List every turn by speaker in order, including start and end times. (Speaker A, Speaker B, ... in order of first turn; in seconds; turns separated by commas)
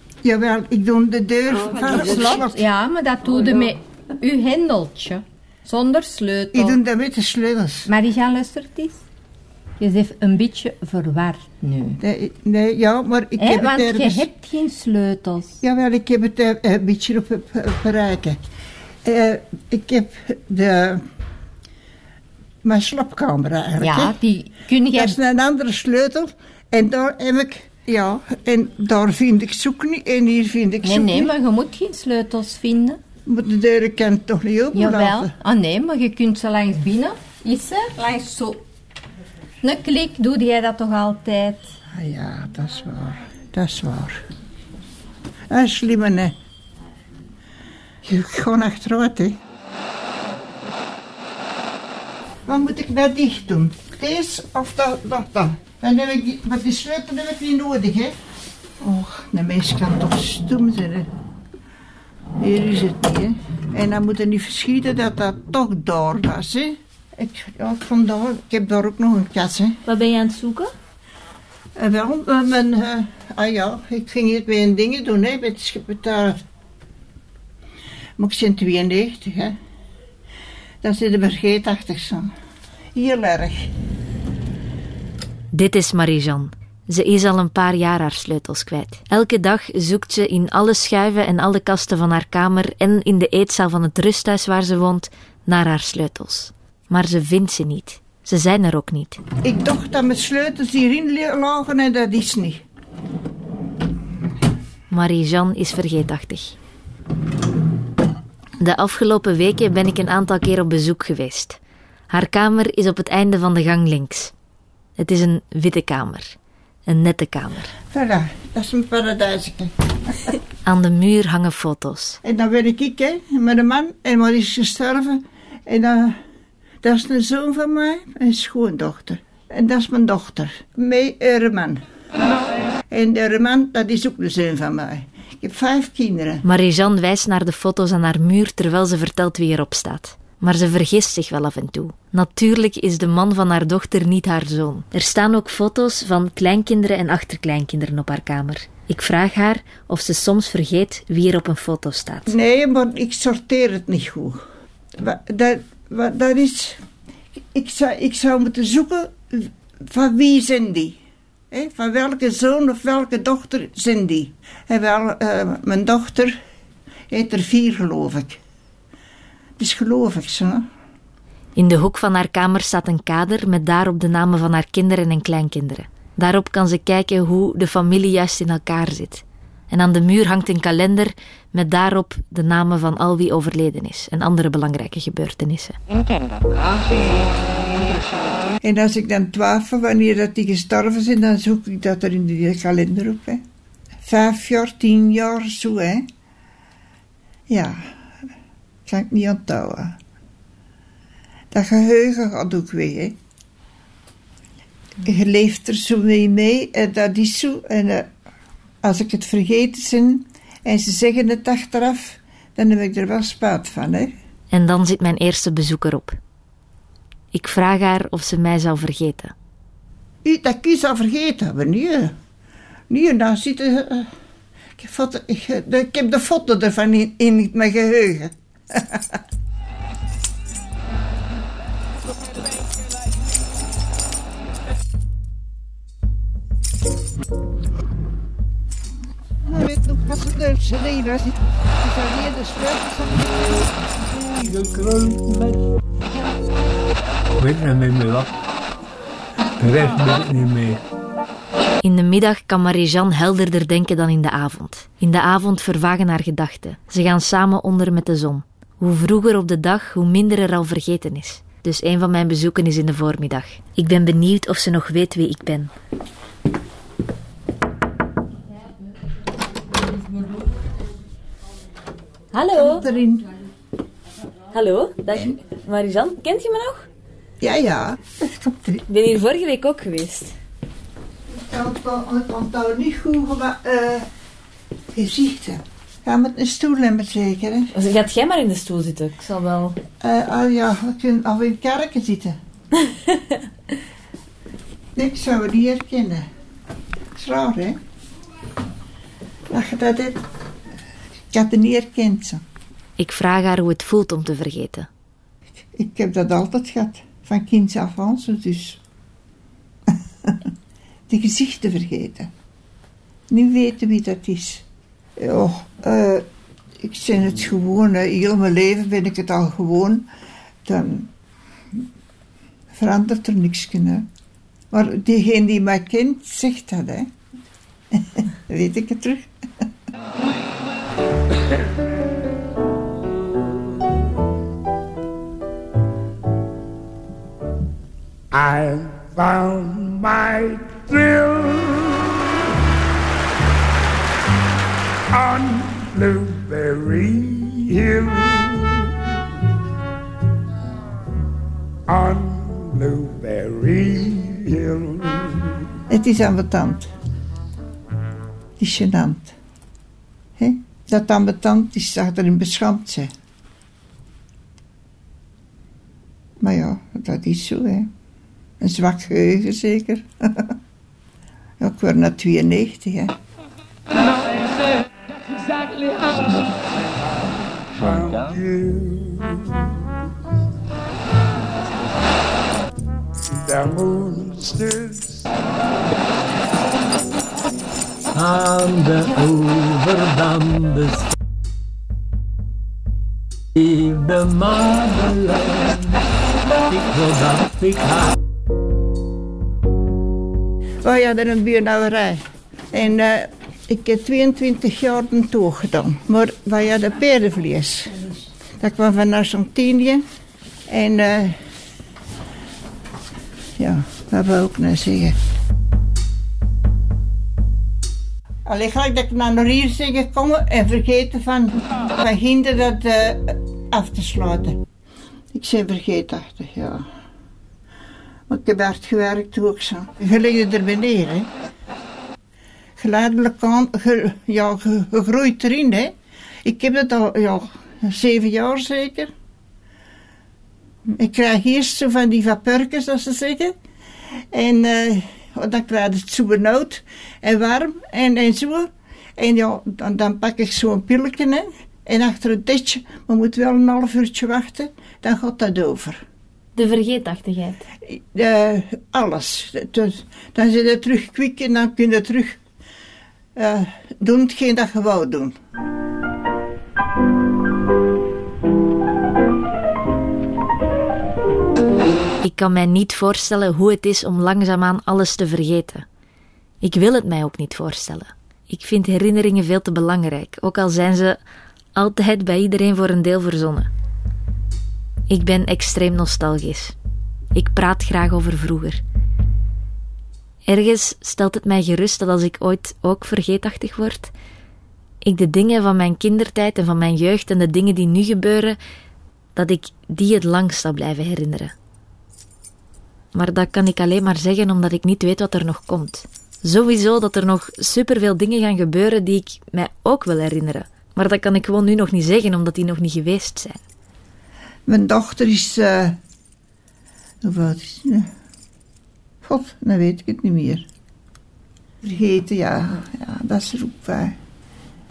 Speaker A: 0.2-2.6, Speaker B: 1.6-6.8, Speaker A: 6.5-7.9, Speaker B: 7.9-9.0, Speaker B: 9.8-12.0, Speaker A: 12.0-14.3, Speaker B: 13.4-15.6, Speaker A: 15.6-18.4, Speaker A: 19.0-21.0, Speaker A: 22.6-24.1, Speaker B: 23.8-25.2, Speaker A: 24.9-31.3, Speaker B: 30.8-33.0, Speaker A: 33.2-35.3, Speaker B: 34.7-38.6, Speaker B: 39.6-41.7, Speaker A: 41.9-44.2, Speaker A: 45.5-46.4, Speaker A: 48.0-49.4, Speaker A: 52.5-58.2, Speaker A: 58.8-61.1, Speaker A: 62.4-69.8, Speaker C: 69.8-70.7, Speaker A: 71.8-76.4, Speaker A: 78.2-79.6, Speaker A: 80.8-82.3, Speaker A: 82.9-83.7, Speaker C: 85.5-99.2, Speaker A: 99.4-102.6, Speaker C: 104.9-106.5, Speaker C: 108.6-111.6, Speaker C: 112.1-114.3, Speaker C: 115.0-116.3, Speaker C: 116.9-117.7, Speaker A: 117.8-120.2, Speaker C: 120.6-122.2, Speaker A: 122.2-126.2, Speaker A: 126.8-131.8, Speaker A: 132.9-136.4, Speaker C: 136.4-152.3, Speaker A: 152.3-154.4, Speaker A: 154.9-156.8, Speaker A: 157.5-161.0, Speaker A: 161.5-166.4, Speaker A: 167.1-168.4, Speaker A: 169.6-170.7, Speaker C: 171.6-185.8, Speaker A: 188.6-193.4, Speaker A: 194.0-196.1, Speaker A: 197.5-197.9, Speaker A: 198.8-200.0, Speaker A: 201.5-203.2, Speaker A: 205.0-208.1, Speaker A: 208.8-214.1, Speaker C: 214.5-216.2, Speaker C: 217.3-219.3, Speaker A: 220.2-222.1, Speaker A: 222.9-224.1, Speaker A: 224.8-229.2, Speaker A: 239.4-243.4, Speaker D: 244.0-245.7, Speaker D: 247.4-248.4, Speaker D: 249.6-250.8, Speaker C: 251.8-265.7, Speaker C: 272.3-272.8, Speaker A: 272.5-273.3, Speaker C: 274.5-276.8, Speaker A: 277.4-278.8, Speaker C: 278.9-280.3, Speaker A: 281.3-284.1, Speaker A: 284.9-287.7, Speaker C: 287.7-289.8, Speaker A: 290.0-292.4, Speaker A: 294.9-296.3, Speaker A: 297.1-297.8, Speaker A: 299.5-300.2, Speaker A: 301.3-302.4, Speaker C: 303.0-304.9, Speaker A: 305.7-308.8, Speaker A: 309.9-310.5, Speaker A: 311.1-312.3, Speaker A: 313.3-314.6, Speaker A: 315.2-316.3, Speaker A: 316.8-320.1, Speaker A: 320.6-321.1, Speaker A: 322.7-324.1, Speaker A: 324.7-327.1, Speaker A: 327.9-329.7, Speaker E: 338.3-342.2, Speaker E: 345.1-348.9, Speaker E: 351.9-355.6, Speaker A: 355.9-356.9, Speaker A: 358.6-359.3, Speaker A: 360.4-363.1, Speaker A: 366.4-367.9, Speaker A: 368.6-370.6, Speaker A: 371.6-373.1, Speaker E: 375.4-379.7, Speaker E: 383.3-385.3, Speaker D: 388.1-391.1, Speaker D: 393.6-396.0, Speaker D: 396.7-398.1, Speaker A: 400.8-408.0, Speaker A: 408.6-410.0, Speaker A: 410.7-411.4, Speaker A: 413.6-415.2, Speaker A: 418.4-424.6, Speaker A: 425.3-426.9, Speaker A: 428.3-431.3, Speaker A: 432.8-439.1, Speaker A: 440.9-443.6, Speaker A: 444.3-456.0, Speaker C: 456.5-457.6, Speaker A: 457.9-462.4, Speaker A: 463.3-465.4, Speaker C: 472.2-475.9, Speaker C: 476.6-481.2, Speaker C: 481.7-483.7, Speaker C: 485.1-486.7, Speaker C: 487.3-488.8, Speaker C: 490.4-494.1, Speaker C: 495.0-498.6, Speaker C: 499.3-501.5, Speaker C: 503.1-513.6, Speaker A: 514.7-516.0, Speaker A: 517.2-518.1, Speaker A: 519.2-520.7, Speaker A: 521.8-524.2